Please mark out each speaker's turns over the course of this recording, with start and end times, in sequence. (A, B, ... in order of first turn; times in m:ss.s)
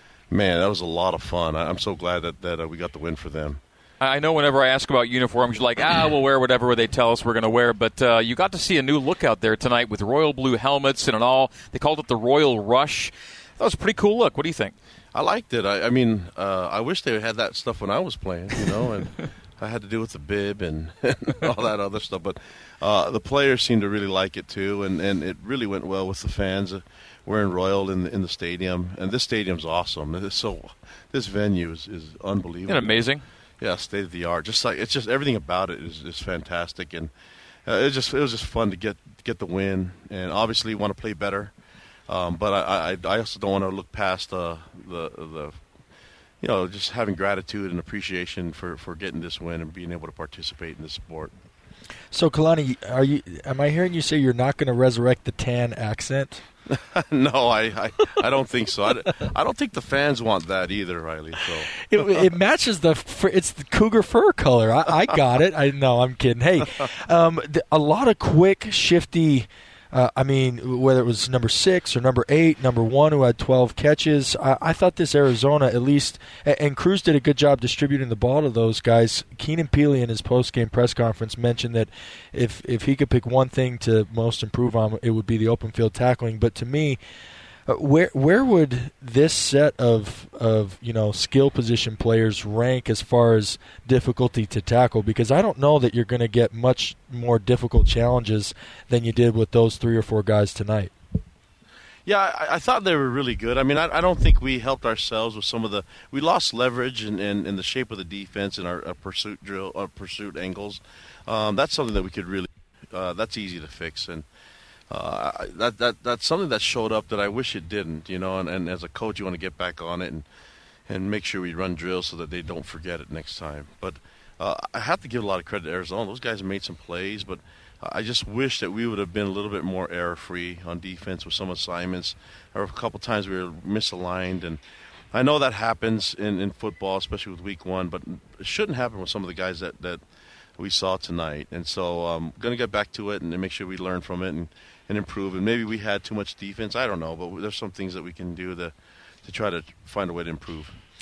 0:00.3-0:03.6 A
0:04.0-0:14.7 B
0:15.1-0:33.0 A
0:32.7-0:33.2 B
0:33.6-0:37.1 A
0:37.7-0:41.5 A
0:42.1-0:45.6 A
0:46.4-0:51.4 A
0:52.1-0:56.4 C
0:56.7-1:01.7 A
1:01.8-1:27.0 C
1:27.7-1:40.9 C
1:42.0-1:54.3 A
1:54.9-2:00.3 A
2:00.9-2:14.6 A
2:15.1-2:20.0 A
2:20.6-2:30.8 A